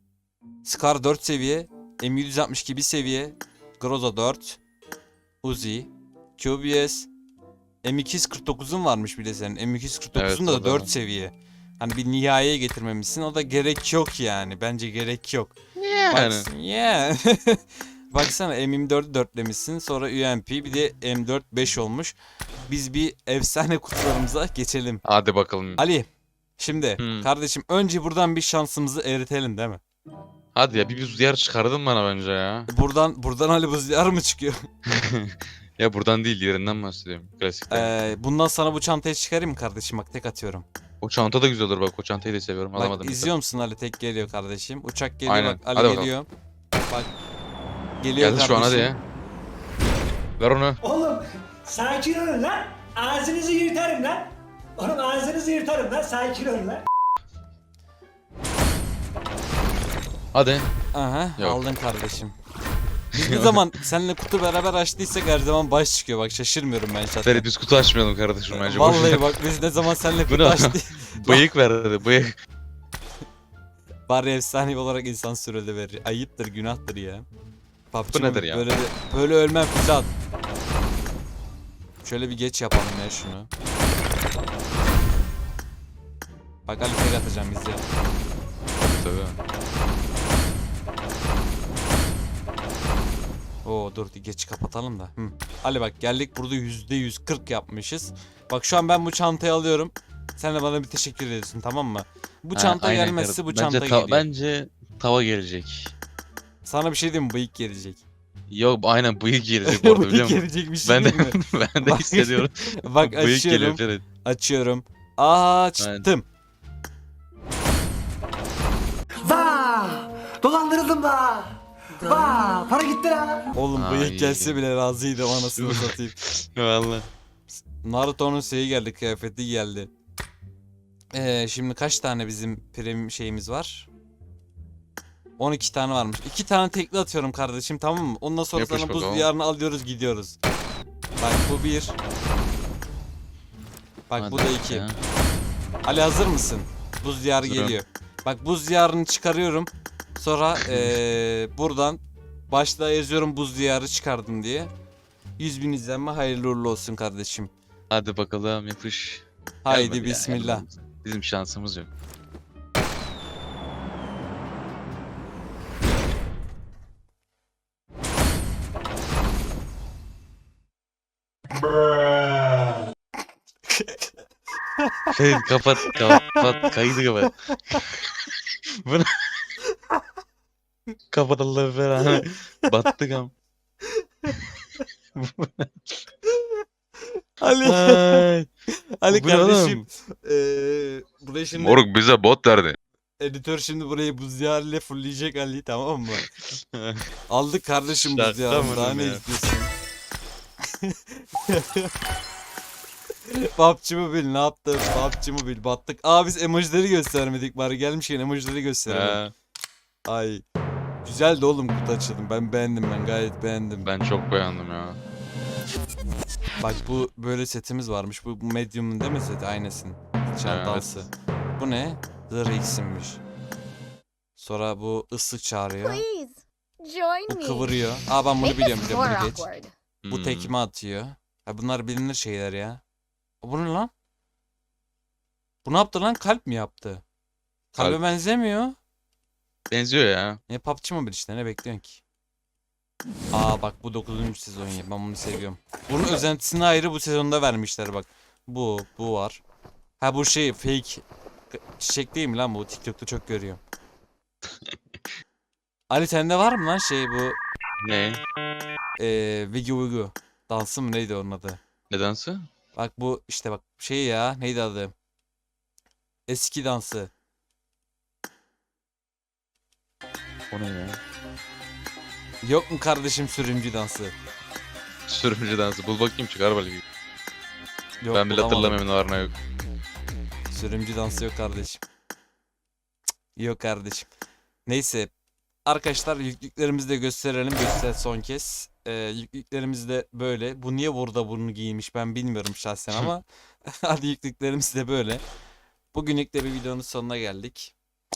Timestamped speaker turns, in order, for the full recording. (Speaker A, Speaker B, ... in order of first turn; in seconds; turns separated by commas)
Speaker A: 0.7-4.6, Speaker A: 5.4-7.1, Speaker A: 7.8-15.6, Speaker B: 10.2-10.9, Speaker B: 15.8-16.5, Speaker A: 16.1-25.0, Speaker B: 25.1-25.8, Speaker A: 25.8-26.1, Speaker A: 26.6-29.8, Speaker B: 27.0-27.3, Speaker B: 30.6-32.7, Speaker A: 32.7-34.6, Speaker B: 34.9-38.1, Speaker A: 37.7-40.7, Speaker B: 41.0-43.3, Speaker A: 42.8-46.3, Speaker B: 45.3-46.1, Speaker A: 48.0-48.9, Speaker B: 48.2-49.0, Speaker B: 50.4-50.8, Speaker C: 50.8-56.8, Speaker B: 60.3-60.7, Speaker A: 60.9-62.3, Speaker B: 61.4-61.6, Speaker A: 63.1-67.5, Speaker B: 63.2-63.7, Speaker B: 67.2-69.3, Speaker A: 68.5-71.5, Speaker B: 70.3-72.3, Speaker A: 74.1-77.3, Speaker A: 77.9-80.1, Speaker B: 78.1-78.7, Speaker A: 82.0-83.5, Speaker A: 86.7-87.8, Speaker B: 88.8-89.4, Speaker A: 93.7-104.3, Speaker B: 102.5-106.0, Speaker A: 106.7-108.0, Speaker B: 108.5-114.0, Speaker A: 109.6-116.3, Speaker B: 115.8-116.1, Speaker C: 119.2-123.5, Speaker A: 123.5-126.2, Speaker B: 123.7-124.6, Speaker B: 125.4-127.1, Speaker A: 127.8-129.9, Speaker A: 131.1-133.9, Speaker A: 135.4-140.4, Speaker B: 138.5-139.3, Speaker A: 141.2-142.0, Speaker A: 144.1-144.8, Speaker B: 144.2-145.0, Speaker A: 145.9-154.7, Speaker B: 147.4-147.8, Speaker B: 150.6-151.0, Speaker A: 155.4-157.5, Speaker B: 157.9-161.9, Speaker A: 159.7-160.7, Speaker A: 173.7-174.1, Speaker A: 174.8-175.1, Speaker B: 175.1-178.1, Speaker A: 175.8-176.7, Speaker B: 178.8-179.3, Speaker B: 181.1-183.3, Speaker A: 184.0-184.8, Speaker B: 185.2-186.0, Speaker A: 187.4-188.3, Speaker B: 187.6-188.5, Speaker A: 189.0-191.8, Speaker B: 189.1-189.8, Speaker B: 191.5-192.8, Speaker A: 193.2-196.2, Speaker B: 196.1-197.1, Speaker A: 197.3-199.7, Speaker B: 197.9-199.2, Speaker A: 200.8-201.9, Speaker A: 203.3-209.2, Speaker B: 208.9-209.3, Speaker A: 210.1-210.4, Speaker A: 211.0-213.9, Speaker B: 213.8-215.0, Speaker A: 216.6-223.2, Speaker B: 220.4-221.1, Speaker A: 224.4-226.0, Speaker D: 225.8-227.7, Speaker A: 227.3-229.5, Speaker D: 228.4-229.7, Speaker B: 230.0-230.5, Speaker A: 230.1-232.8, Speaker A: 233.4-233.9, Speaker A: 235.7-237.0, Speaker A: 237.7-238.8, Speaker B: 237.8-238.1, Speaker B: 239.7-240.4, Speaker A: 240.5-242.0, Speaker A: 243.3-249.4, Speaker A: 250.0-253.6, Speaker A: 255.9-257.4, Speaker B: 257.8-258.2, Speaker A: 259.0-261.6, Speaker B: 261.9-262.4, Speaker A: 262.8-264.9, Speaker A: 266.3-267.1, Speaker B: 270.5-271.0, Speaker A: 272.4-274.1, Speaker B: 275.1-276.8, Speaker A: 278.0-278.8, Speaker B: 278.1-279.4, Speaker A: 280.5-281.8, Speaker A: 283.4-284.1, Speaker A: 284.7-285.1, Speaker A: 285.7-295.2, Speaker A: 295.9-297.8